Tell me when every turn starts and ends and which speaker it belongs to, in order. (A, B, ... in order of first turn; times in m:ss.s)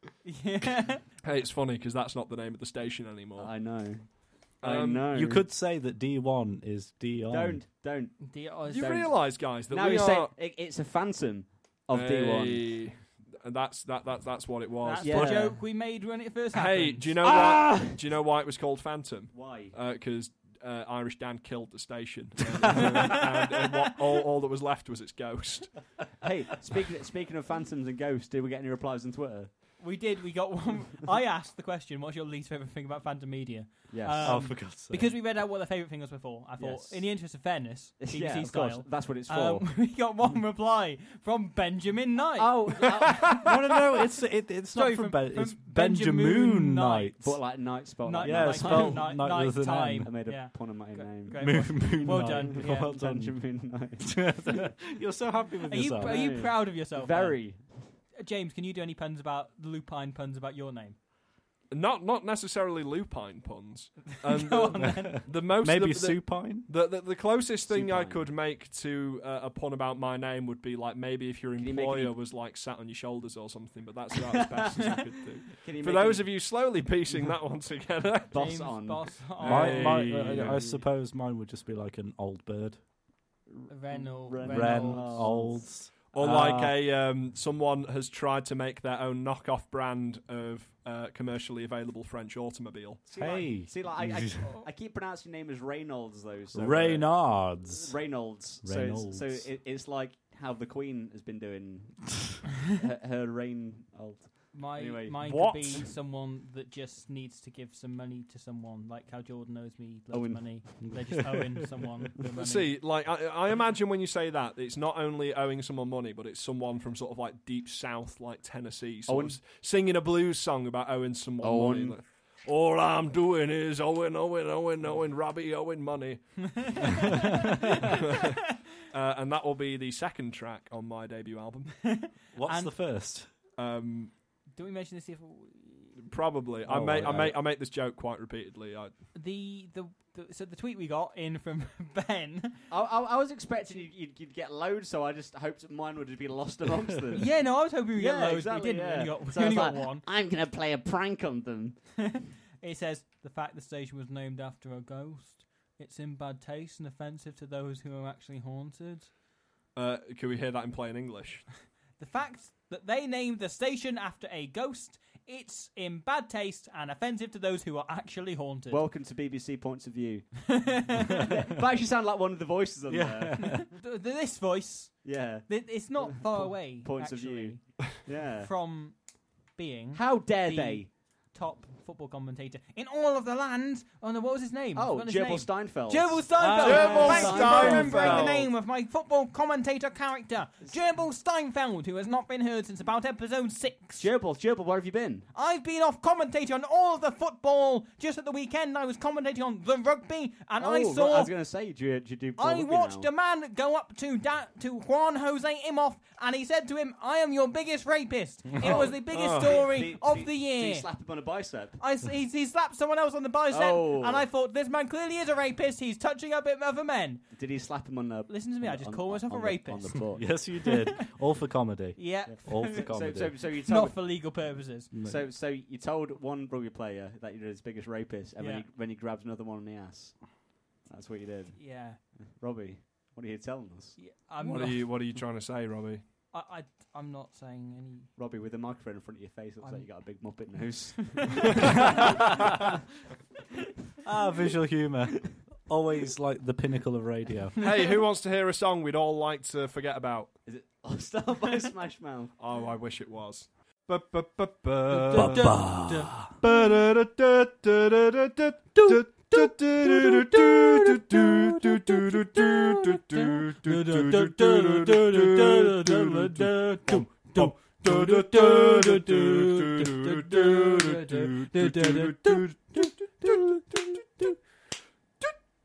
0:00.2-0:01.0 A
0:01.2-0:03.5 B
0:03.4-0:05.4 C
0:04.6-0:05.2 B
0:05.1-0:07.6 D
0:07.3-0:09.2 C
0:08.2-0:09.0 A
0:08.7-0:10.3 B
0:09.7-0:12.7 C
0:11.9-0:15.3 B
0:14.8-0:17.2 A
0:15.0-0:15.6 C
0:16.5-0:25.9 B
0:17.2-0:18.0 C
0:19.3-0:19.8 C
0:26.2-0:29.5 C
0:29.8-0:43.0 A
0:33.9-0:34.6 C
0:34.2-0:35.1 D
0:36.6-0:37.1 C
0:38.0-0:39.8 C
0:42.4-0:43.5 C
0:43.2-0:47.4 D
0:44.7-0:47.2 A
0:47.2-0:49.4 C
0:48.0-0:52.9 A
0:48.2-0:50.2 D
0:50.0-0:54.3 C
0:51.3-0:56.5 D
0:55.7-1:01.0 A
0:56.0-0:57.8 C
1:01.7-1:18.5 B
1:04.2-1:05.2 A
1:04.8-1:06.7 D
1:07.7-1:08.2 C
1:11.6-1:12.1 C
1:14.5-1:16.3 C
1:18.3-1:19.2 C
1:18.3-1:20.1 A
1:19.4-1:20.6 B
1:19.4-1:22.8 D
1:20.0-1:20.8 C
1:23.5-1:25.7 C
1:23.7-1:25.4 A
1:24.4-1:26.8 D
1:26.1-1:33.0 B
1:33.1-1:45.2 C
1:33.2-1:34.5 D
1:36.5-1:37.9 D
1:38.6-1:39.5 D
1:44.5-1:52.7 A
1:45.2-1:45.8 B
1:50.1-1:50.9 C
1:50.8-1:51.5 D
1:52.3-2:07.1 B
1:59.1-1:59.4 C
2:01.4-2:02.0 C
2:06.6-2:07.1 A
2:07.9-2:12.0 B
2:11.8-2:12.7 A
2:12.3-2:13.3 D
2:13.6-2:14.1 B
2:14.5-2:16.0 A
2:16.0-2:18.9 B
2:16.6-2:17.4 D
2:19.1-2:22.7 A
2:22.7-2:31.8 C
2:27.2-2:30.0 A
2:32.0-2:39.1 A
2:39.7-2:41.5 B
2:42.0-2:48.8 A
2:48.7-2:53.6 C
2:50.6-2:51.3 A
2:52.9-2:53.7 D
2:53.4-2:59.0 A
2:55.0-2:58.5 C
2:59.5-3:14.1 A
2:59.9-3:00.9 C
3:04.8-3:08.4 C
3:06.4-3:07.3 D
3:06.6-3:08.5 B
3:14.0-3:15.3 C
3:15.3-3:21.3 A
3:20.6-3:23.1 C
3:22.4-3:30.9 A
3:28.6-3:31.8 C
3:29.1-3:29.7 B
3:31.8-3:37.3 A
3:33.5-3:34.3 C
3:37.3-3:40.4 C
3:38.3-3:40.9 A
3:40.1-3:43.4 D
3:42.0-3:44.9 A
3:42.3-3:44.0 C
3:44.9-3:45.2 D
3:45.0-3:54.0 C
3:48.4-3:48.6 A
3:51.5-3:52.0 A
3:54.0-3:54.8 A
3:54.4-3:56.0 B
3:56.3-3:58.1 A
3:58.2-4:02.7 C
3:59.6-3:59.9 A
4:01.2-4:02.0 A
4:04.0-4:07.6 D
4:07.6-4:10.3 B
4:10.4-4:12.3 C
4:12.4-4:15.6 B
4:14.9-4:16.1 A
4:15.1-4:16.3 D
4:16.4-4:33.5 B
4:18.8-4:34.3 A